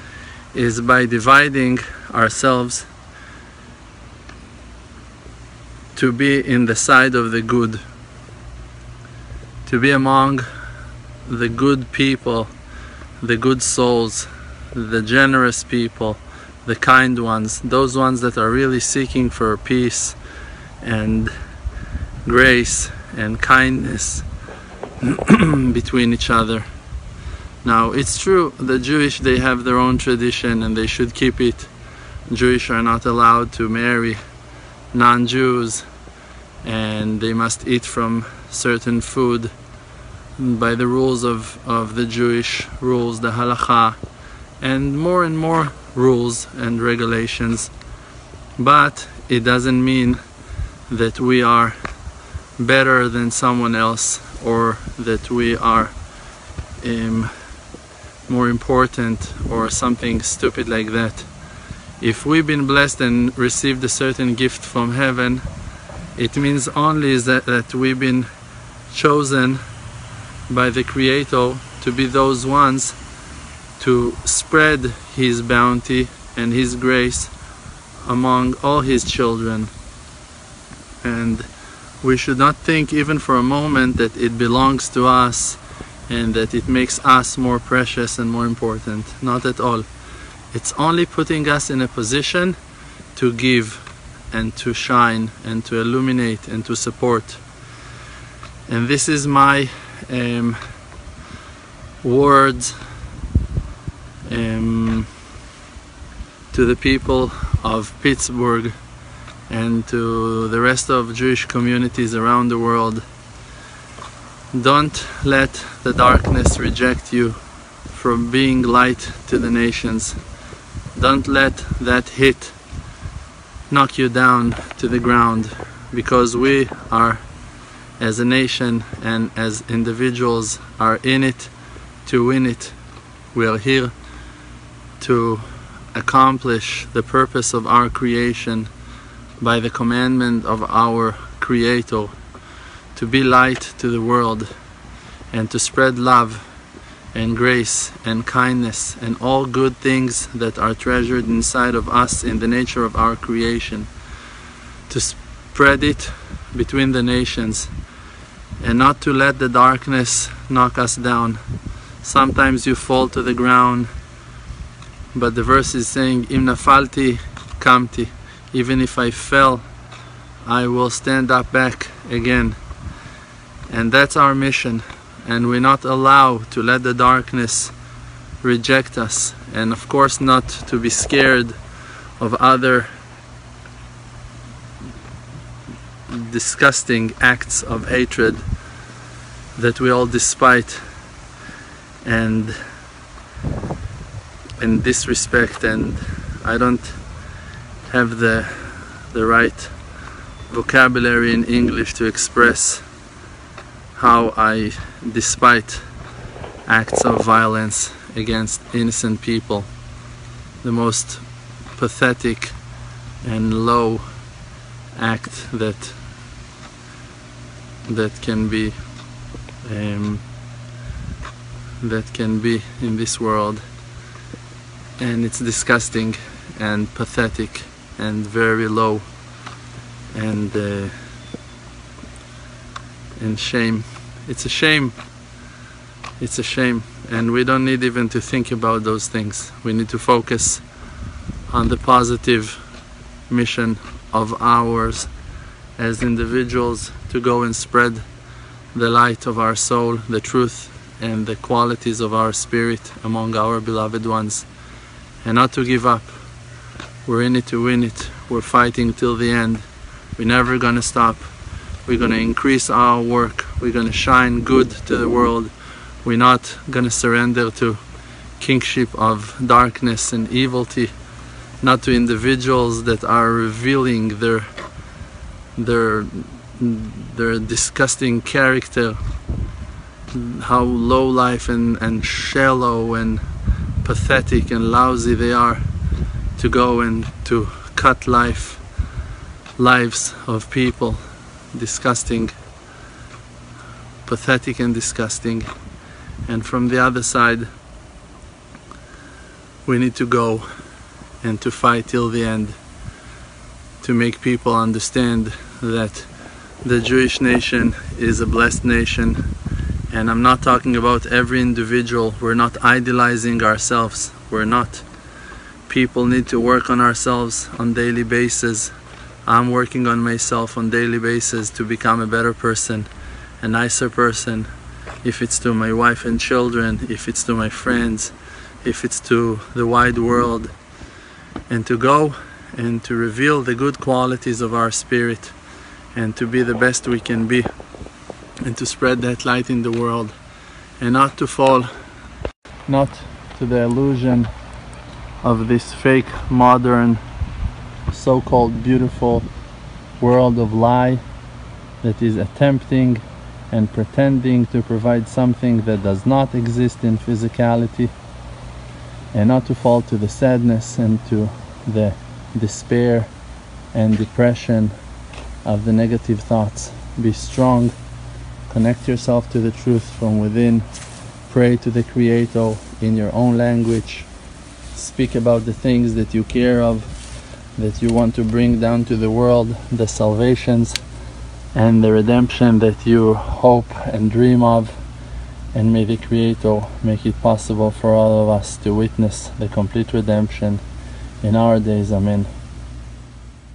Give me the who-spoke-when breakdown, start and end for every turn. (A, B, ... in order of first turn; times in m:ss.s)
0:00.5-0:02.9 A
0:05.9-0:07.8 A
0:09.6-0:10.4 A
0:11.2-0:12.5 A
0:13.2-0:20.2 A
0:20.8-0:21.3 A
0:22.2-0:24.2 A
0:25.0-0:26.6 A
0:27.6-0:31.7 A
0:32.3-0:34.2 A
0:34.9-0:35.8 A
0:36.6-0:39.5 A
0:40.4-0:44.0 A
0:44.6-0:47.7 A
0:48.6-0:50.2 A
0:50.9-0:51.8 A
0:52.6-0:56.0 A
0:56.8-0:57.3 A
0:58.3-1:01.3 A
1:02.0-1:05.4 A
1:06.2-1:08.3 A
1:08.9-1:09.6 A
1:10.5-1:13.0 A
1:13.8-1:17.3 A
1:18.0-1:19.7 A
1:21.0-1:21.5 A
1:22.0-1:29.9 A
1:30.5-1:32.6 A
1:33.1-1:37.4 A
1:38.7-1:40.6 A
1:42.0-1:42.8 A
1:44.2-1:45.1 A
1:46.5-1:48.7 A
1:49.5-1:53.0 A
1:54.5-1:57.4 A
1:57.9-2:00.2 A
2:00.9-2:02.6 A
2:03.7-2:07.2 A
2:08.0-2:11.5 A
2:12.0-2:12.8 A
2:13.3-2:13.9 A
2:15.0-2:18.7 A
2:19.4-2:22.1 A
2:22.9-2:24.5 A
2:25.3-2:26.5 A
2:27.1-2:33.9 A
2:34.9-2:37.7 A
2:38.6-2:41.4 A
2:42.0-2:43.9 A
2:45.1-2:49.6 A
2:50.4-2:52.6 A
2:53.7-2:57.7 A
2:58.4-3:01.6 A
3:02.2-3:02.9 A
3:06.1-3:08.4 A
3:09.6-3:10.8 A
3:12.0-3:12.6 A
3:14.6-3:17.0 A
3:17.9-3:19.7 A
3:20.5-3:22.8 A
3:24.0-3:25.8 A
3:26.6-3:29.7 A
3:30.6-3:31.2 A
3:31.7-3:32.6 A
3:33.2-3:34.1 A
3:34.9-3:36.0 A
3:37.9-3:38.8 A
3:39.6-3:40.2 A
3:41.8-3:43.6 A
3:45.0-3:49.0 A
3:50.1-3:50.9 A
3:53.2-3:55.0 A
3:56.2-4:00.6 A
4:01.5-4:02.6 A
4:03.3-4:05.1 A
4:05.8-4:08.0 A
4:08.7-4:14.5 A
4:15.2-4:16.1 A
4:17.0-4:19.6 A
4:20.2-4:21.3 A
4:21.8-4:25.5 A
4:26.0-4:27.8 A
4:28.4-4:30.9 A
4:31.6-4:34.5 A
4:35.6-4:39.0 A
4:40.1-4:43.2 A
4:43.8-4:45.6 A
4:46.4-4:48.6 A
4:49.6-4:52.3 A
4:54.0-4:55.5 A
4:56.3-4:57.5 A
4:59.6-5:00.5 A
5:01.2-5:02.6 A
5:03.8-5:06.1 A
5:06.6-5:09.3 A
5:09.9-5:14.8 A
5:15.7-5:18.7 A
5:19.2-5:22.9 A
5:23.4-5:24.5 A
5:25.0-5:30.5 A
5:31.5-5:35.3 A
5:35.9-5:37.5 A
5:38.4-5:40.2 A
5:40.8-5:41.7 A
5:42.7-5:44.3 A
5:45.2-5:47.0 A
5:47.9-5:49.3 A
5:50.0-5:51.0 A
5:51.8-5:57.9 A
5:59.1-6:03.1 A
6:03.7-6:04.7 A
6:05.4-6:07.8 A
6:08.5-6:10.6 A
6:11.3-6:14.1 A
6:14.7-6:16.9 A
6:17.6-6:20.8 A
6:21.5-6:24.7 A
6:25.5-6:30.6 A
6:31.2-6:32.3 A